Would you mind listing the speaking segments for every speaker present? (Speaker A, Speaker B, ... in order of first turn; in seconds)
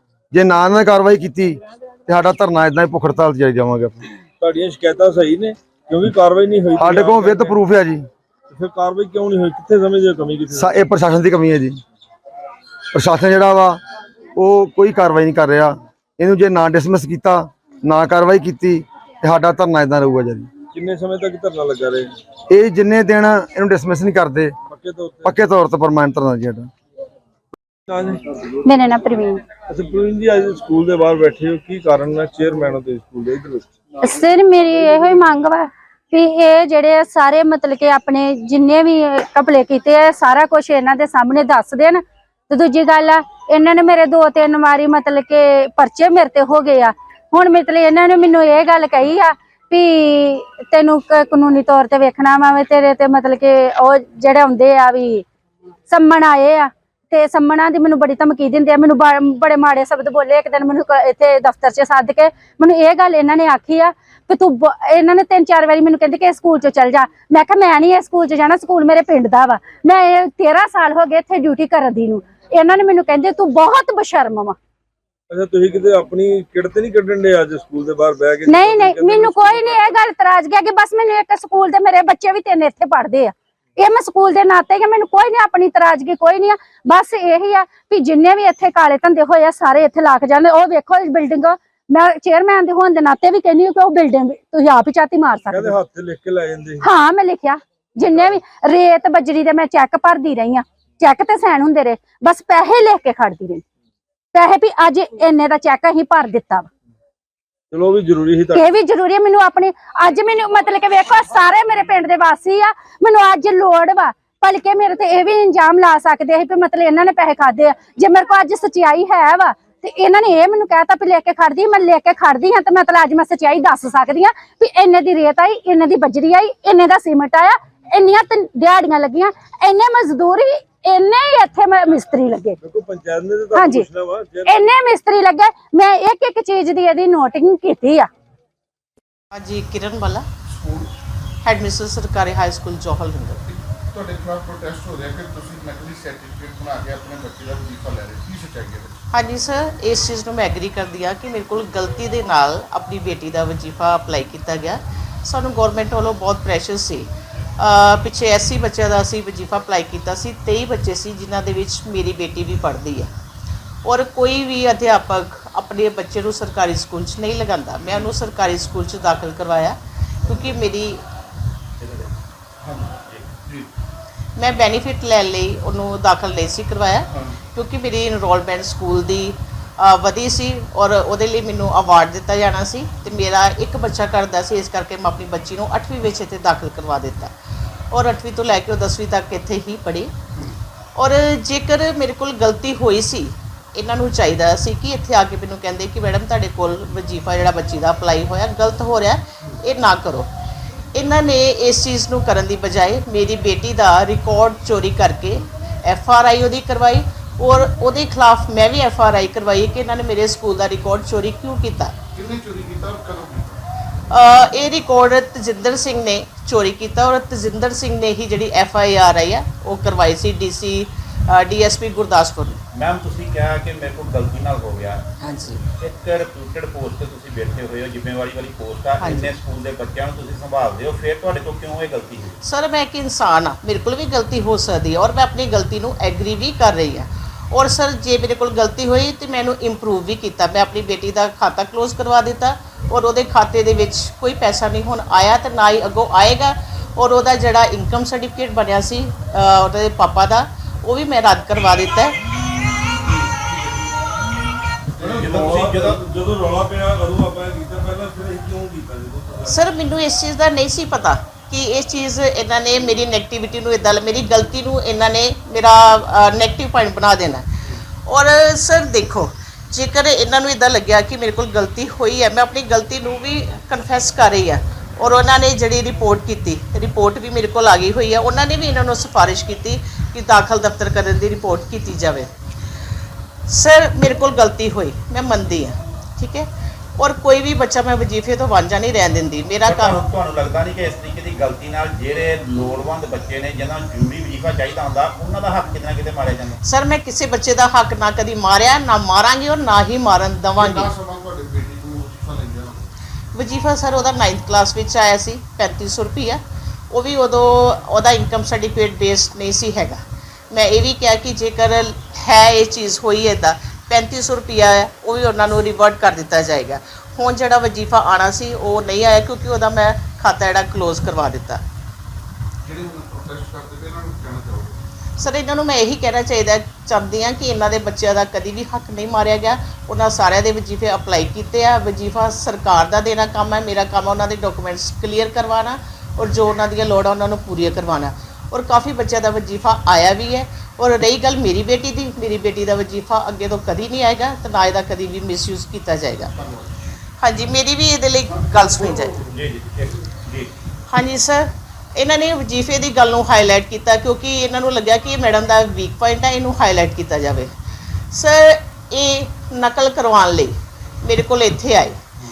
Speaker A: 0.3-4.0, 6.8-8.1, 10.5-11.8, 12.9-13.8, 14.3-20.5, 22.5-24.5, 25.2-26.7
Speaker B: 4.4-7.6, 8.5-10.8, 20.7-22.1, 24.6-25.4, 27.9-28.5, 29.7-33.7, 75.3-79.8, 95.5-96.8, 98.1-98.4, 107.7-108.6, 132.6-134.7, 255.0-259.6
Speaker C: 28.6-29.4, 34.0-55.2, 55.9-74.5, 78.5-95.8, 96.8-103.6, 104.3-106.7, 108.5-132.6, 133.5-133.8, 134.4-138.1
Speaker D: 139.3-140.2, 141.4-143.4, 149.1-163.1, 163.8-171.0, 174.4-187.3, 187.9-190.1, 190.9-200.3, 200.9-212.0, 214.1-222.6, 225.2-225.6, 229.0-229.3, 232.4-252.2, 259.5-267.4, 268.1-282.3, 283.5-290.0, 296.6-300.9, 303.3-306.4, 306.9-310.0, 310.5-321.6, 325.2-346.3, 347.2-349.1, 350.9-357.5, 358.1-362.0
Speaker E: 143.9-148.9, 212.2-213.6, 300.9-302.9, 322.6-324.8, 346.4-346.7
Speaker F: 171.8-172.1, 173.0-173.3, 222.7-225.0, 225.8-232.4, 255.0-256.0, 289.6-296.6, 349.3-350.5